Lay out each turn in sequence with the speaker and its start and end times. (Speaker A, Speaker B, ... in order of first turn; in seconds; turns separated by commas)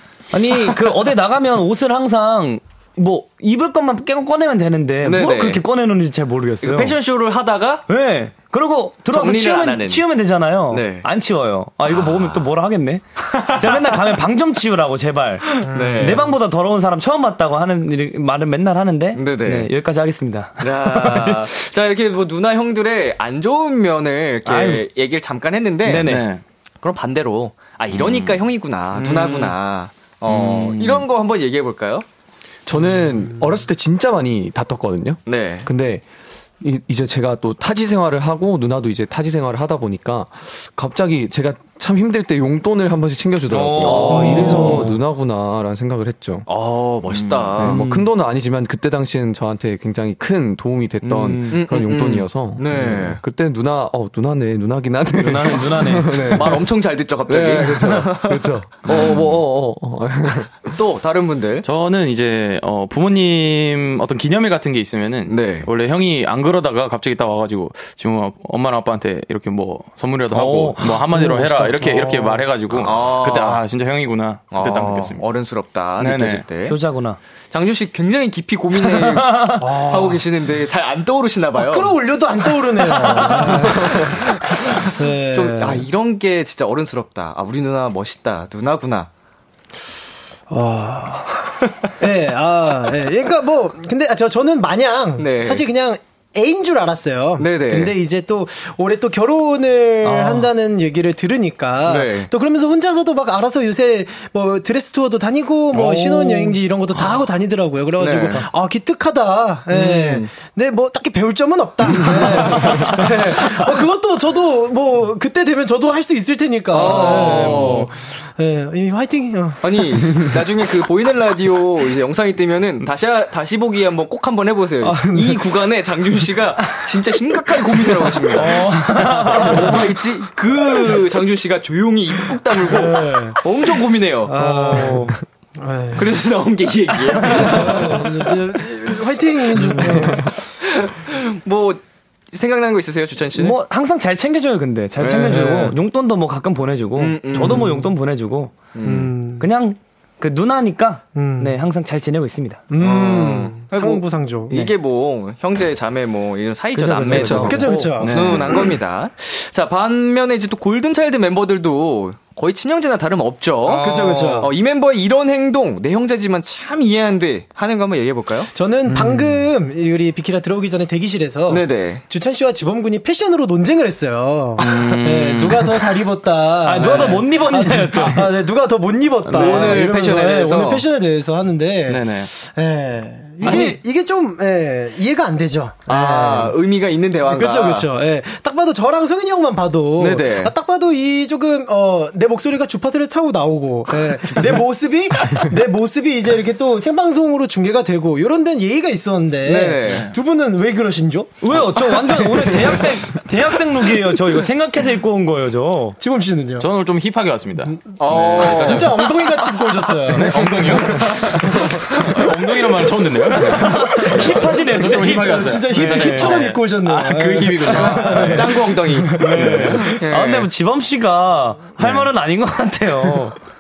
Speaker A: 0.3-7.0, Speaker B: 5.0-5.6, Speaker B: 6.6-7.8, Speaker A: 7.9-21.5, Speaker B: 9.1-10.0, Speaker B: 10.7-11.1, Speaker B: 11.9-12.5, Speaker B: 13.3-13.6, Speaker B: 15.5-16.3, Speaker C: 15.7-16.2, Speaker B: 19.2-19.7, Speaker B: 20.6-26.3, Speaker A: 24.5-24.9, Speaker A: 25.9-26.2, Speaker D: 25.9-26.4, Speaker B: 26.8-32.0, Speaker D: 27.9-28.4, Speaker A: 28.9-29.5, Speaker D: 30.3-31.0, Speaker E: 32.7-36.0, Speaker B: 35.3-35.7, Speaker E: 36.6-46.5, Speaker A: 43.5-45.0, Speaker B: 43.8-44.9, Speaker B: 46.5-47.8, Speaker D: 47.2-47.5, Speaker E: 47.6-56.7, Speaker A: 47.6-48.1, Speaker A: 51.0-51.6, Speaker B: 51.5-53.2, Speaker A: 55.2-56.3, Speaker B: 56.3-59.3, Speaker E: 57.3-60.5, Speaker B: 60.7-61.7, Speaker D: 61.6-75.2, Speaker B: 65.3-65.7, Speaker A: 70.3-72.4, Speaker B: 72.7-73.6, Speaker B: 74.5-76.8, Speaker D: 76.0-76.5, Speaker A: 76.7-77.2, Speaker B: 77.5-82.0, Speaker A: 79.0-79.6, Speaker C: 79.6-80.2, Speaker C: 81.5-85.9, Speaker B: 83.1-84.8, Speaker B: 85.3-89.1, Speaker C: 90.5-120.3, Speaker B: 95.2-95.6, Speaker B: 97.4-98.0, Speaker A: 100.0-100.5, Speaker B: 101.8-102.3, Speaker B: 105.7-106.6, Speaker B: 108.0-108.5, Speaker B: 109.7-110.3, Speaker B: 112.2-112.9, Speaker B: 116.7-117.9, Speaker A: 116.9-117.8, Speaker B: 119.6-134.3, Speaker C: 124.8-125.6, Speaker A: 128.4-129.7, Speaker C: 128.4-129.9, Speaker C: 132.7-133.4, Speaker C: 134.3-136.2, Speaker A: 134.3-135.2, Speaker B: 135.9-138.6, Speaker C: 137.2-140.4, Speaker B: 139.6-143.6, Speaker A: 143.4-148.6, Speaker B: 145.0-145.8, Speaker B: 147.0-147.9, Speaker B: 148.8-149.1, Speaker C: 148.8-149.5, Speaker A: 149.4-152.6, Speaker C: 151.2-151.6, Speaker C: 152.7-154.6, Speaker B: 152.8-168.5, Speaker A: 156.8-157.9, Speaker E: 157.0-157.7, Speaker C: 157.3-158.8, Speaker D: 158.0-158.5, Speaker A: 163.7-164.4, Speaker C: 163.8-164.5, Speaker C: 168.6-186.6, Speaker E: 168.9-169.5, Speaker B: 171.5-172.0, Speaker D: 174.6-176.0, Speaker A: 176.6-178.3, Speaker A: 179.3-179.8, Speaker B: 179.3-180.9, Speaker D: 181.9-182.3, Speaker B: 183.4-183.8, Speaker B: 185.9-187.9, Speaker C: 187.2-201.4, Speaker B: 190.0-190.5, Speaker B: 199.4-200.1, Speaker A: 201.4-206.0, Speaker C: 206.0-206.7, Speaker D: 206.6-218.5, Speaker B: 208.0-208.9, Speaker C: 208.2-219.8, Speaker A: 213.5-216.4, Speaker E: 217.6-218.1, Speaker B: 218.1-219.2, Speaker A: 219.2-223.4, Speaker B: 219.8-220.5, Speaker D: 221.8-222.1